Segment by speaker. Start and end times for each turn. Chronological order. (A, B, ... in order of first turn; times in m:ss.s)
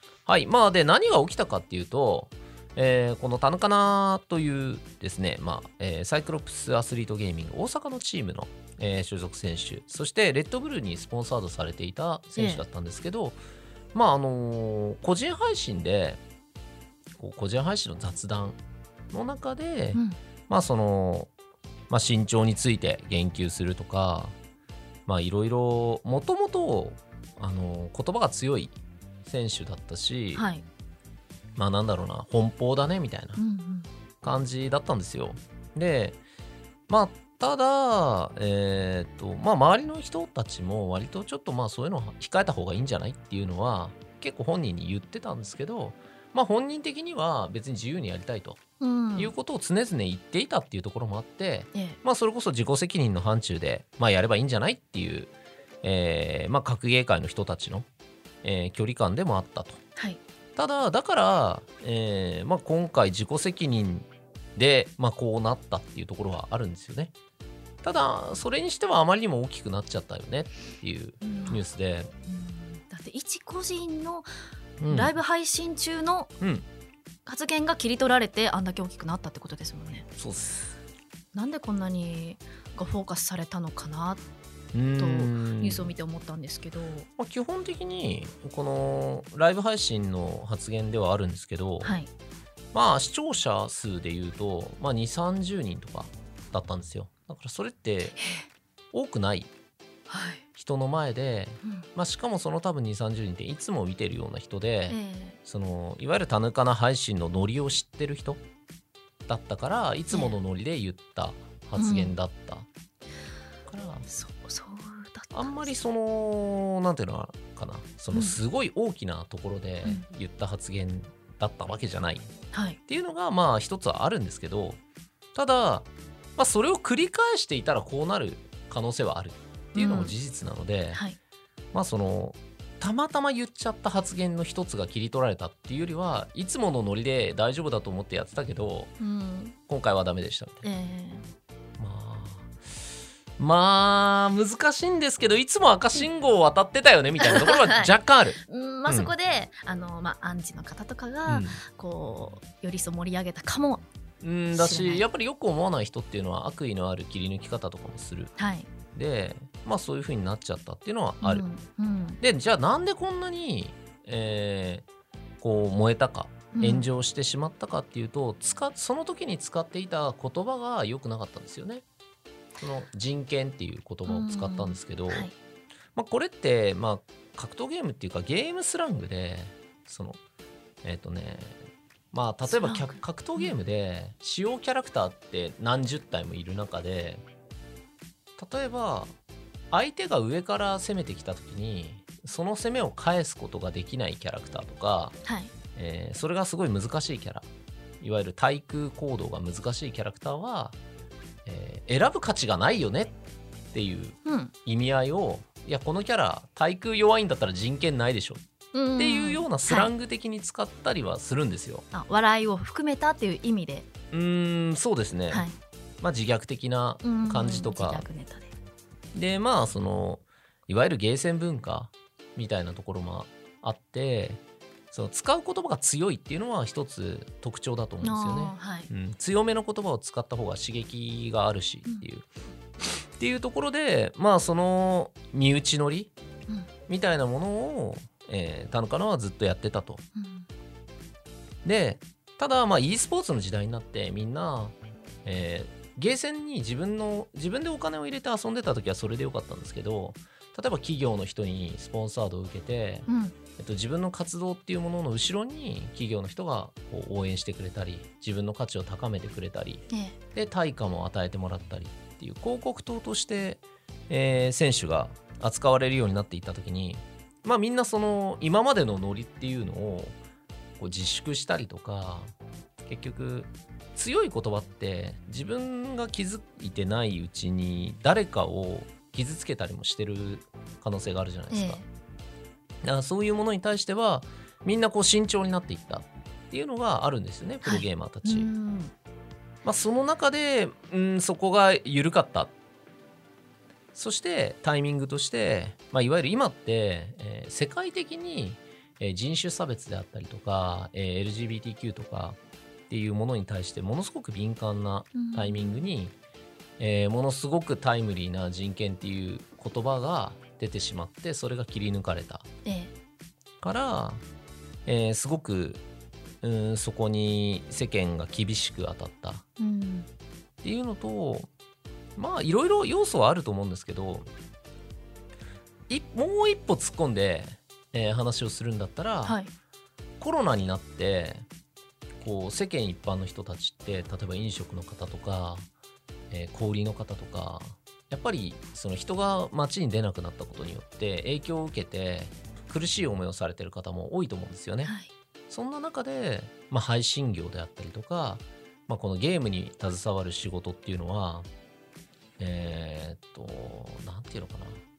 0:00.2-0:13.4 A
0:12.4-0:12.6 B
0:13.9-0:16.2 A
0:17.2-0:18.6 A
0:19.1-0:21.3 A
0:21.9-0:24.3 A
0:25.1-0:30.4 A
0:30.3-0:30.6 B
0:31.6-0:33.4 A
0:33.4-0:33.9 B
0:34.2-0:36.2 A
0:36.9-0:48.6 A
0:48.8-0:49.3 B
0:49.2-0:55.3 A
0:55.8-0:57.9 A
0:58.4-0:59.8 A
1:00.6-1:07.1 A
1:07.8-1:12.1 A
1:11.2-1:11.6 B
1:12.3-1:14.3 B
1:14.8-1:15.1 A
1:14.9-1:16.3 B
1:16.4-1:16.6 A
1:17.2-1:20.0 B
1:20.2-1:20.7 A
1:21.3-1:24.2 B
1:24.7-1:25.9 A
1:25.0-1:27.1 B
1:27.2-1:31.9 A
1:31.8-1:32.1 B
1:32.7-1:38.2 A
1:38.2-1:38.4 B
1:38.9-1:39.5 A
1:40.1-1:40.4 B
1:40.5-1:48.4 A
1:44.9-1:45.4 B
1:49.3-1:52.7 A
1:50.1-1:50.4 B
1:51.8-1:52.1 B
1:53.6-1:54.1 A
1:54.1-1:55.7 B
1:55.3-2:02.3 A
1:58.1-1:58.4 B
2:02.5-2:02.8 B
2:02.8-2:04.8 A
2:05.3-2:11.0 A
2:09.7-2:10.1 B
2:11.7-2:18.9 A
2:19.0-2:19.5 B
2:19.7-2:20.6 A
2:20.6-2:21.2 B
2:21.8-2:22.5 A
2:23.4-2:29.1 A
2:27.2-2:27.9 B
2:28.4-2:33.8 B
2:31.3-2:31.6 A
2:34.2-2:38.3 A
2:34.5-2:35.0 B
2:38.4-2:38.7 B
2:38.9-2:41.4 A
2:41.2-2:42.2 B
2:42.2-2:44.8 A
2:45.4-2:51.8 A
2:46.5-2:46.9 B
2:52.6-2:55.3 A
2:54.1-2:55.3 B
2:55.9-3:00.2 A
3:00.8-3:07.2 A
3:02.5-3:03.6 B
3:08.4-3:09.1 A
3:09.7-3:15.2 A
3:15.2-3:15.5 B
3:15.7-3:17.4 A
3:18.0-3:20.8 A
3:21.4-3:23.2 A
3:23.7-3:28.4 A
3:24.2-3:24.5 B
3:28.7-3:29.9 B
3:29.0-3:31.8 A
3:31.9-3:33.9 B
3:34.1-3:35.4 A
3:35.3-3:35.6 B
3:36.0-3:38.0 A
3:37.0-3:38.5 B
3:39.1-3:52.3 A
3:48.0-3:48.9 B
3:52.9-3:56.1 A
3:56.9-4:00.0 A
4:00.1-4:00.5 B
4:01.6-4:30.2 A
4:13.1-4:13.4 B
4:19.9-4:20.2 B
4:30.8-4:32.3 A
4:32.9-4:41.8 A
4:41.5-4:41.8 B
4:42.8-4:48.5 A
4:47.6-4:48.9 B
4:49.6-4:52.5 A
4:53.9-5:02.4 A
5:02.9-5:06.1 A
5:05.1-5:05.8 B
5:06.8-5:12.4 A
5:12.6-5:12.9 B
5:13.6-5:14.2 A
5:14.8-5:15.8 A
5:16.4-5:19.4 A
5:19.6-5:20.1 B
5:20.6-5:21.5 A
5:22.2-5:24.3 A
5:25.9-5:29.4 A
5:29.2-5:29.5 B
5:30.2-5:31.4 A
5:32.2-5:35.7 A
5:36.3-5:44.9 A
5:44.8-5:45.1 B
5:45.5-5:51.5 A
5:52.4-5:54.8 A